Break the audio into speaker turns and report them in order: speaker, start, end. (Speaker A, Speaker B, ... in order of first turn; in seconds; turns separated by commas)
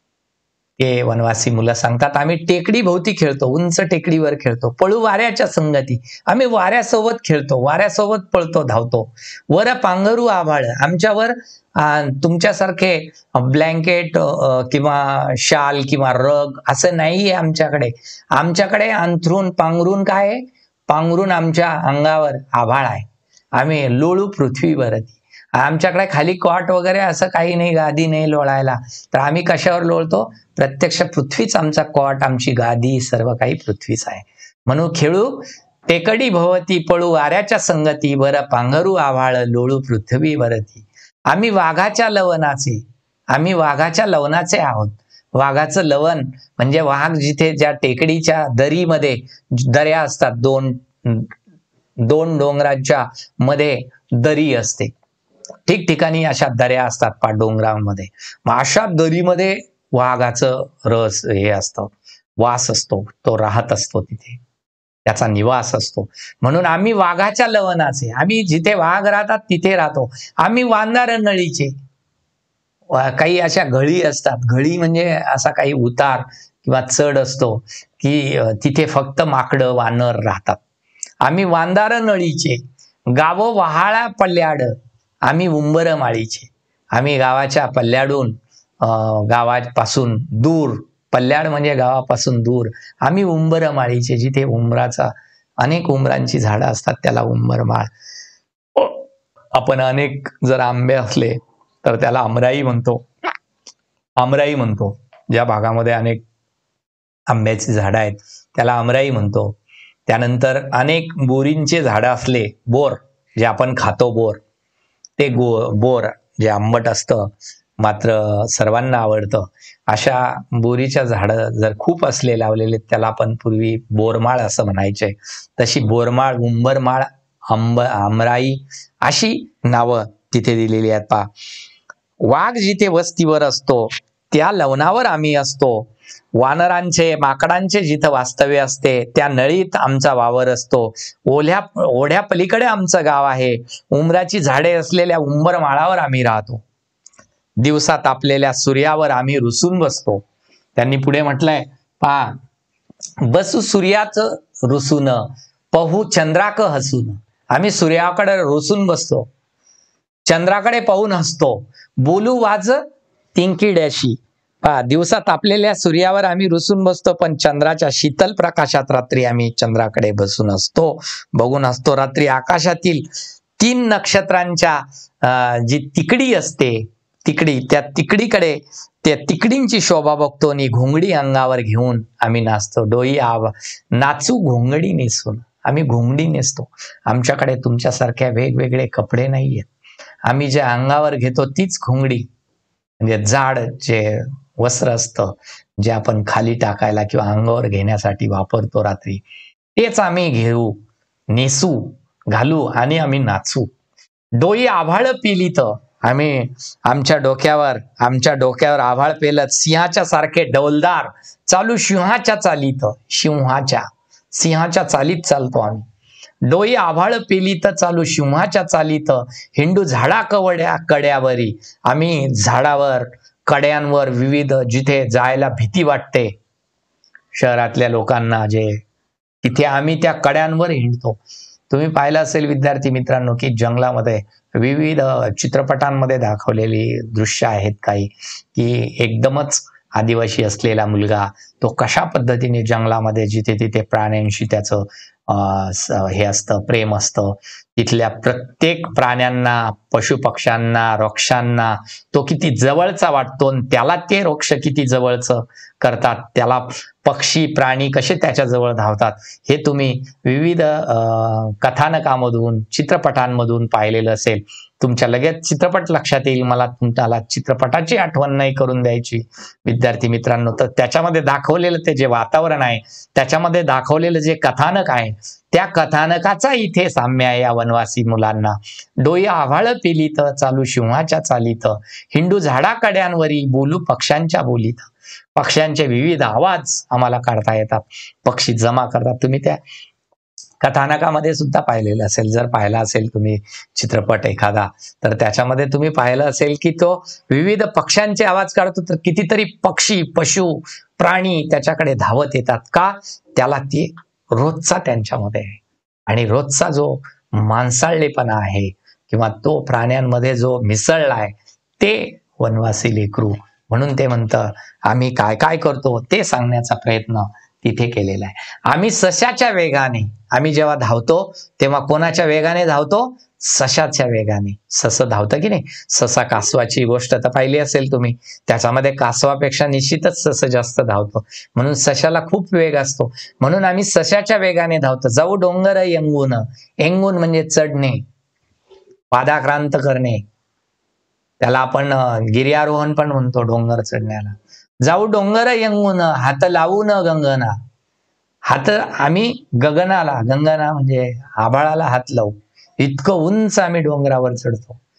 Speaker A: 0.8-51.4, Speaker A: 52.0-54.9, Speaker A: 55.7-64.4, Speaker A: 65.0-71.7, Speaker A: 72.9-80.6, Speaker A: 81.2-82.6, Speaker A: 83.1-97.9, Speaker A: 98.8-103.0, Speaker A: 104.2-106.2, Speaker A: 107.3-114.4, Speaker A: 115.2-131.3, Speaker A: 132.2-146.6, Speaker A: 147.6-150.2, Speaker A: 150.8-152.4, Speaker A: 153.2-159.3, Speaker A: 160.3-162.8, Speaker A: 163.3-189.7, Speaker A: 190.2-192.3, Speaker A: 193.0-199.2, Speaker A: 199.8-203.7, Speaker A: 204.4-215.8, Speaker A: 216.4-226.3, Speaker A: 227.3-228.8, Speaker A: 229.4-289.6, Speaker A: 290.6-338.0, Speaker A: 339.1-340.2, Speaker A: 341.4-347.6, Speaker A: 348.5-354.8